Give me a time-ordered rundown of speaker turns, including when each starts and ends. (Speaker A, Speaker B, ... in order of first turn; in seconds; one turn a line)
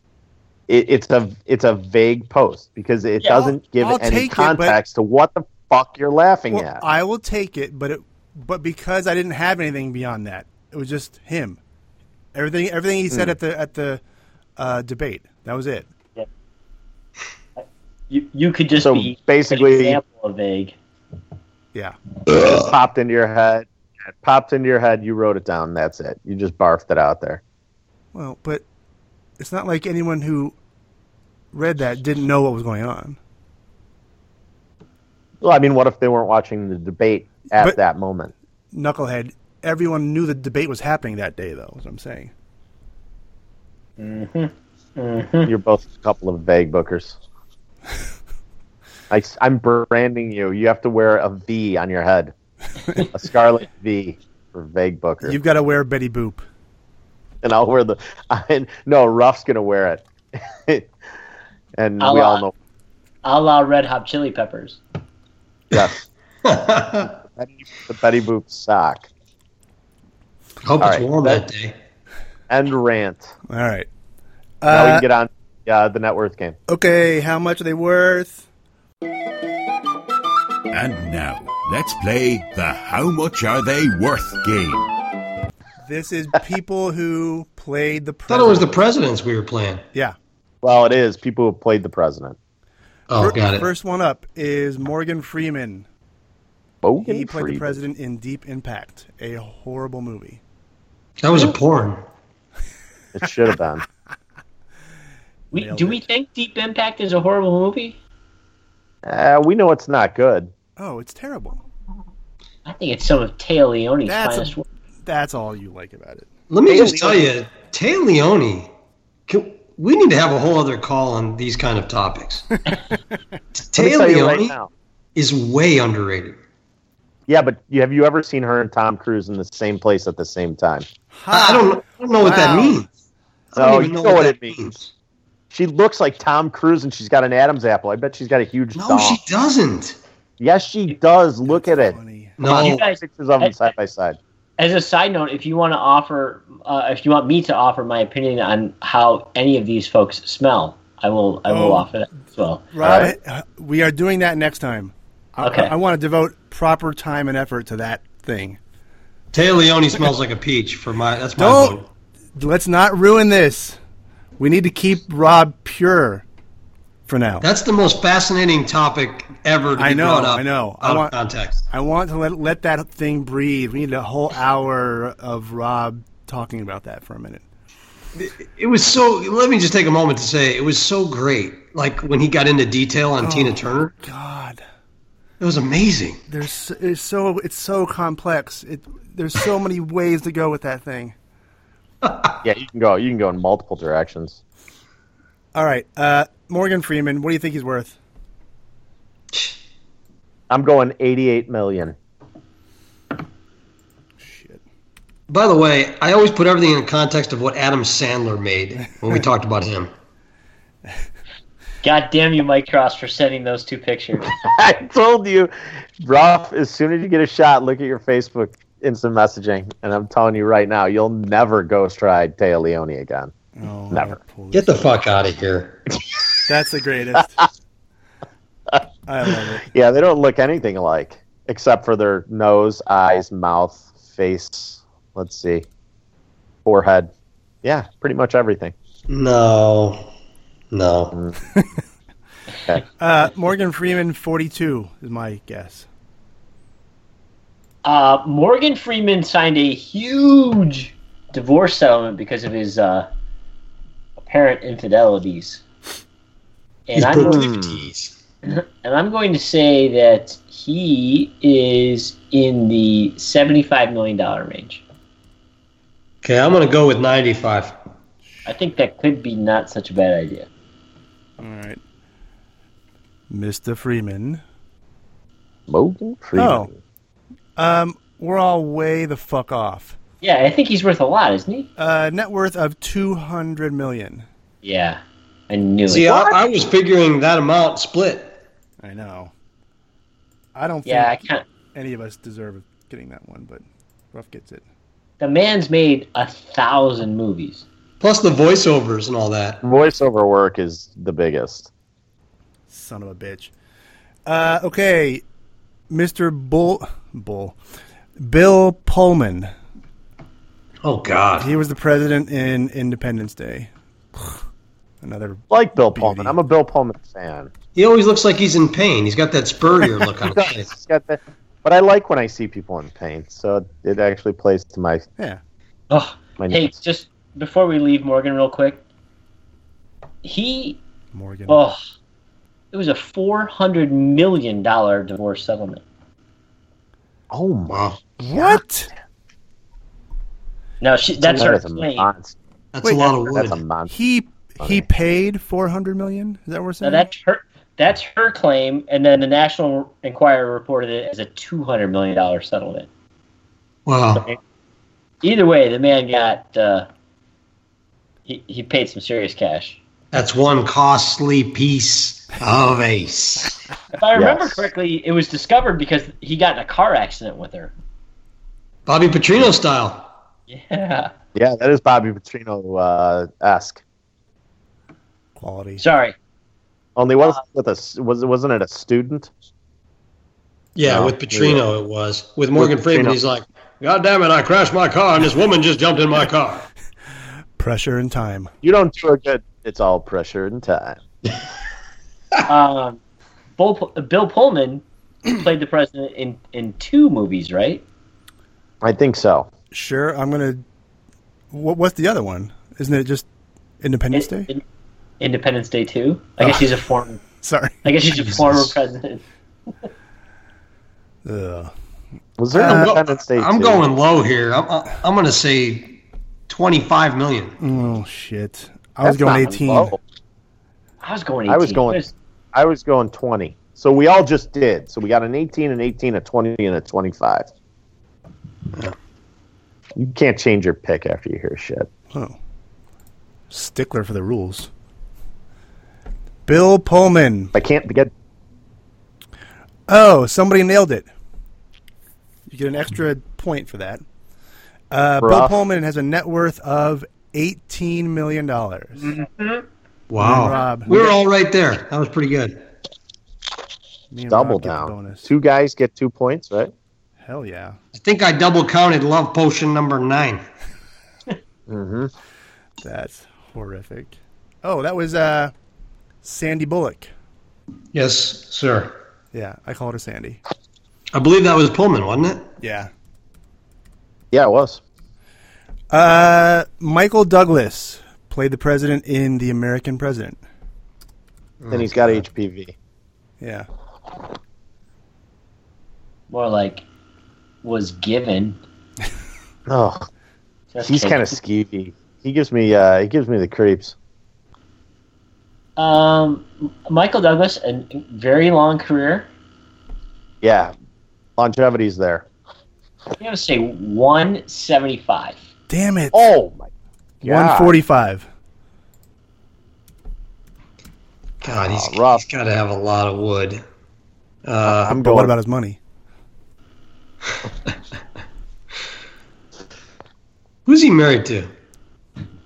Speaker A: 0.7-6.8
Speaker B: 3.2-3.5
Speaker C: 3.8-4.8
Speaker C: 6.5-11.6
Speaker C: 12.3-14.0
Speaker C: 14.6-15.9
Speaker B: 17.6-20.8
Speaker A: 18.7-20.0
Speaker A: 22.3-27.4
Speaker C: 28.1-28.6
Speaker C: 29.4-30.6
Speaker C: 31.5-33.2
Speaker A: 35.4-38.3
Speaker C: 38.7-42.3
Speaker B: 44.0-45.5
Speaker A: 45.5-47.2
Speaker A: 49.1-52.3
Speaker A: 53.1-55.4
Speaker C: 55.2-56.5
Speaker A: 57.4-60.9
Speaker A: 61.8-62.5
Speaker B: 62.0-62.4
Speaker B: 63.2-64.8
Speaker A: 65.7-66.0
Speaker D: 66.4-67.2
Speaker A: 67.3-69.1
Speaker D: 70.6-71.8
Speaker A: 70.8-71.4
Speaker A: 72.5-73.3
Speaker C: 73.5-73.9
Speaker C: 74.6-75.0
Speaker A: 74.7-76.6
Speaker C: 76.7-78.4
Speaker E: 80.7-84.9
Speaker C: 85.8-88.7
Speaker D: 88.3-89.8
Speaker A: 90.6-92.4
Speaker D: 93.1-93.7
Speaker C: 93.2-95.8
Speaker A: 96.8-97.8
Speaker C: 97.0-100.4
Speaker D: 101.2-102.0
Speaker A: 103.1-103.8
Speaker B: 105.5-108.0
Speaker C: 105.5-106.0
Speaker A: 109.0-110.5
Speaker C: 110.8-111.6
Speaker B: 112.7-114.7
Speaker C: 114.0-116.3
Speaker D: 116.5-118.7
Speaker A: 116.7-117.2
Speaker D: 119.3-122.5
Speaker D: 123.6-124.5
Speaker A: 123.8-124.7
Speaker D: 125.2-126.4
Speaker A: 127.3-130.9
Speaker C: 131.1-132.8
Speaker D: 131.3-132.9
Speaker D: 133.5-134.9
Speaker A: 133.6-134.6
Speaker A: 135.5-139.2
Speaker D: 138.8-140.0
Speaker A: 140.4-142.0
Speaker C: 141.5-142.4
Speaker D: 142.4-142.8
Speaker B: 142.4-143.7
Speaker A: 142.5-144.2
Speaker B: 144.6-152.7
Speaker C: 151.5-151.9
Speaker C: 152.7-158.6
Speaker A: 152.8-153.1
Speaker B: 155.4-155.7
Speaker D: 159.3-161.9
Speaker C: 161.4-161.8
Speaker C: 162.3-163.8
Speaker C: 164.4-166.2
Speaker C: 167.1-167.4
Speaker D: 167.4-171.6
Speaker C: 169.8-171.1
Speaker C: 171.7-177.4
Speaker D: 178.2-183.9
Speaker C: 183.2-184.6
Speaker D: 185.4-186.2
Speaker C: 186.3-191.1
Speaker D: 192.0-192.3
Speaker A: 192.4-194.4
Speaker C: 195.5-197.9
Speaker A: 200.5-201.9
Speaker C: 204.2-204.6
Speaker D: 205.3-209.9
Speaker B: 211.8-214.3
Speaker A: 214.3-223.3
Speaker C: 223.6-224.8
Speaker D: 224.5-225.8
Speaker C: 226.4-227.4
Speaker A: 228.7-235.7
Speaker C: 229.1-229.7
Speaker A: 236.6-237.1
Speaker A: 237.6-238.7
Speaker D: 239.1-240.1
Speaker D: 240.7-241.2
Speaker C: 243.0-245.8
Speaker B: 247.8-253.1
Speaker B: 254.2-255.6
Speaker B: 256.9-257.5
Speaker D: 256.9-258.1
Speaker A: 257.2-257.9
Speaker B: 258.4-264.8
Speaker D: 266.2-267.7
Speaker B: 268.4-270.5
Speaker C: 271.4-271.8
Speaker C: 273.3-274.4
Speaker A: 275.7-276.8
Speaker C: 276.4-276.7
Speaker C: 277.6-280.0
Speaker B: 280.2-281.7
Speaker C: 281.8-284.3
Speaker B: 284.6-286.1
Speaker D: 285.9-288.4
Speaker C: 288.8-289.3
Speaker C: 290.5-294.6
Speaker B: 290.8-291.4
Speaker B: 295.2-297.6
Speaker D: 298.0-299.6
Speaker A: 299.6-301.7
Speaker C: 302.7-303.5
Speaker C: 304.2-305.2
Speaker C: 305.9-307.6
Speaker C: 308.2-309.5
Speaker D: 310.8-311.5
Speaker C: 311.4-314.4
Speaker C: 315.0-316.4
Speaker A: 315.5-317.5
Speaker D: 317.8-320.7
Speaker A: 320.2-325.1
Speaker B: 325.9-328.8
Speaker A: 326.4-326.7
Speaker B: 330.2-330.8
Speaker C: 331.1-331.6
Speaker B: 331.5-331.8
Speaker B: 332.7-335.8
Speaker A: 337.3-337.8
Speaker D: 337.7-338.0
Speaker C: 338.2-338.9
Speaker A: 338.3-338.6
Speaker B: 340.8-342.1
Speaker A: 341.2-342.4
Speaker D: 342.7-343.6
Speaker C: 342.8-347.1
Speaker A: 343.3-343.9
Speaker A: 344.6-344.8
Speaker B: 346.8-352.9
Speaker D: 353.9-354.2
Speaker B: 355.2-356.9
Speaker B: 358.2-359.8
Speaker D: 360.1-363.6
Speaker B: 363.9-367.7
Speaker A: 364.1-364.6
Speaker D: 368.9-370.1
Speaker B: 370.5-371.1
Speaker A: 371.3-373.8
Speaker C: 375.4-375.8
Speaker B: 375.8-376.1
Speaker A: 376.9-379.3
Speaker D: 380.7-386.7
Speaker A: 380.8-381.6
Speaker A: 382.5-383.2
Speaker C: 387.6-388.5
Speaker A: 388.6-391.0
Speaker B: 392.5-393.0
Speaker B: 393.6-397.8
Speaker A: 398.8-399.5
Speaker C: 399.7-400.6
Speaker C: 401.5-403.3
Speaker C: 403.8-404.5
Speaker B: 404.1-404.6
Speaker B: 405.2-407.2
Speaker C: 407.3-408.7
Speaker B: 407.8-409.2
Speaker C: 411.2-411.7
Speaker A: 412.4-413.8
Speaker C: 412.5-412.9
Speaker D: 412.6-416.0
Speaker D: 416.5-417.6
Speaker C: 417.6-419.9
Speaker A: 419.0-420.0
Speaker B: 421.0-422.1
Speaker A: 421.5-427.5
Speaker A: 430.0-431.9
Speaker C: 433.5-434.7
Speaker C: 436.4-437.5
Speaker A: 437.5-438.1
Speaker C: 439.9-441.1
Speaker C: 442.5-444.0
Speaker C: 444.9-449.1
Speaker A: 445.2-445.6
Speaker B: 449.0-449.6
Speaker D: 450.1-452.6
Speaker C: 450.2-450.9
Speaker C: 454.1-455.3
Speaker A: 454.3-456.7
Speaker C: 457.2-457.8
Speaker D: 457.9-460.4
Speaker A: 461.7-462.1
Speaker C: 462.8-465.5
Speaker C: 466.2-467.1
Speaker D: 467.9-468.9
Speaker C: 469.3-470.4
Speaker D: 471.1-472.5
Speaker C: 472.6-472.9
Speaker A: 474.3-474.8
Speaker C: 475.9-480.4
Speaker D: 481.6-482.1
Speaker A: 481.7-482.7
Speaker C: 483.4-483.7
Speaker B: 486.3-486.8
Speaker B: 487.6-488.6
Speaker A: 489.7-490.1
Speaker B: 490.7-491.4
Speaker A: 490.8-493.9
Speaker B: 495.8-499.3
Speaker A: 500.4-500.7
Speaker A: 501.4-502.2
Speaker B: 503.2-505.4
Speaker C: 505.7-506.2
Speaker A: 506.1-506.7
Speaker A: 507.2-507.8
Speaker C: 507.2-508.2
Speaker D: 511.4-513.6
Speaker A: 511.4-512.2
Speaker D: 514.4-515.0
Speaker A: 514.6-515.3
Speaker C: 515.0-515.8
Speaker D: 520.6-521.5